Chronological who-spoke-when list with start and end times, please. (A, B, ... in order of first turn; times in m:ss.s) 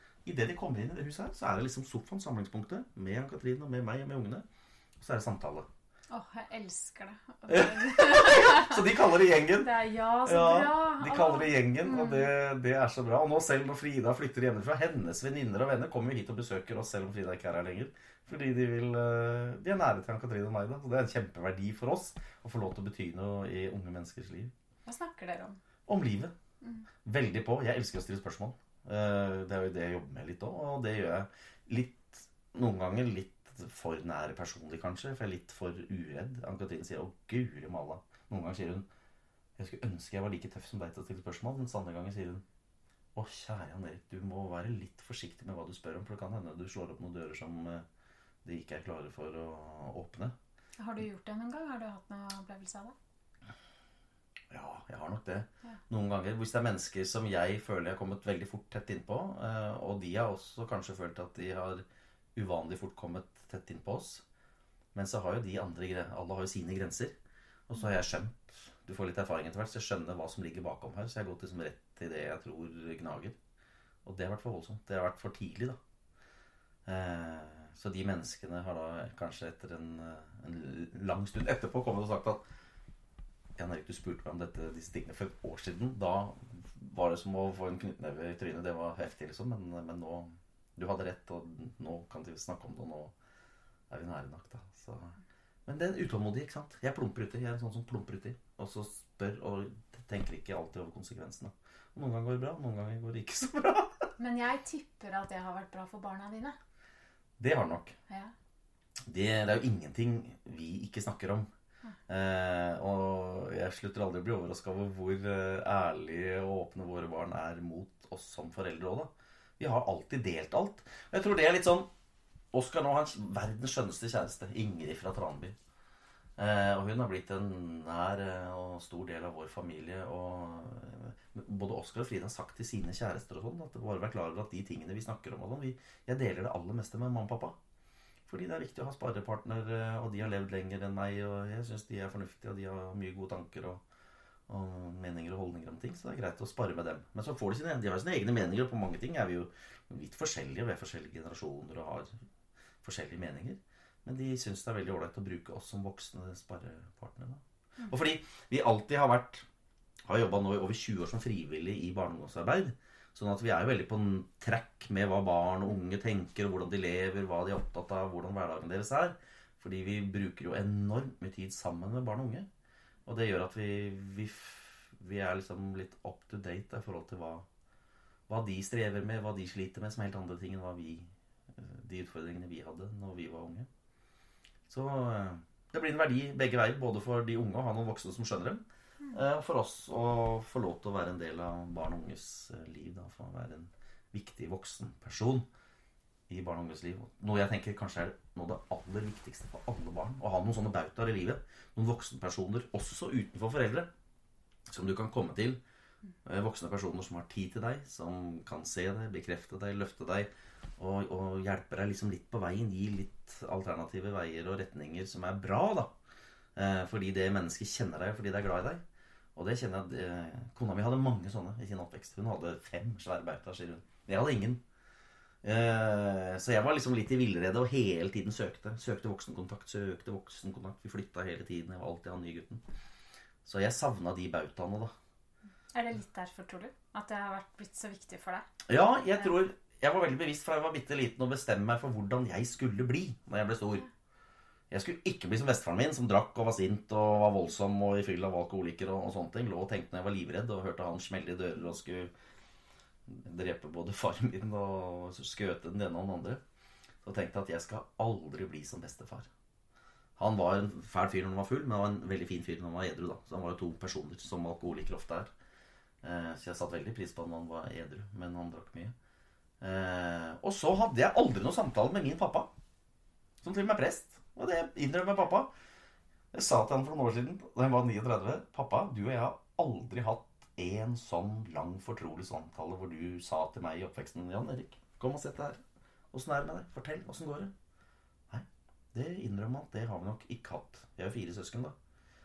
0:00.2-0:04.4 A
0:05.0-0:05.7 A
0:06.1-0:08.8 B
0:07.5-0:09.7 A
0:09.6-0:12.3 B
0:10.2-0:24.5 A
0:24.8-0:25.6 B
0:25.9-0:26.3 A
0:27.0-0:38.8 A
0:39.6-0:42.4 A
0:43.1-0:47.8 A
0:48.4-0:50.3 A
0:50.8-0:52.9 B
0:54.5-1:01.8 A
1:02.4-1:04.2 A
1:04.9-1:07.2 A
1:07.7-1:13.4 A
1:14.0-1:15.8 A
1:16.8-1:22.4 A
1:23.6-1:33.1 A
1:33.9-1:44.1 A
1:44.2-1:46.6 B
1:47.4-1:48.0 A
1:49.0-1:51.5 A
1:52.1-2:01.9 A
2:02.5-2:05.5 A
2:06.4-2:17.6 A
2:18.3-2:23.8 A
2:24.5-2:32.2 A
2:32.8-2:39.4 A
2:40.0-2:52.5 A
2:53.0-2:57.4 A
2:58.3-3:03.7 A
3:04.7-3:15.5 A
3:16.3-3:23.9 A
3:24.7-3:25.6 A
3:26.2-3:35.9 A
3:36.6-3:38.8 A
3:39.3-3:44.6 A
3:45.4-3:52.6 A
3:53.4-3:54.9 A
3:55.7-3:58.5 B
3:58.7-4:03.8 A
4:04.7-4:12.1 A
4:13.1-4:16.4 A
4:17.0-4:19.3 A
4:20.2-4:25.3 A
4:26.0-4:28.9 A
4:29.6-4:32.5 A
4:33.4-4:35.5 A
4:36.3-4:45.6 A
4:46.1-4:47.5 A
4:48.3-4:51.7 A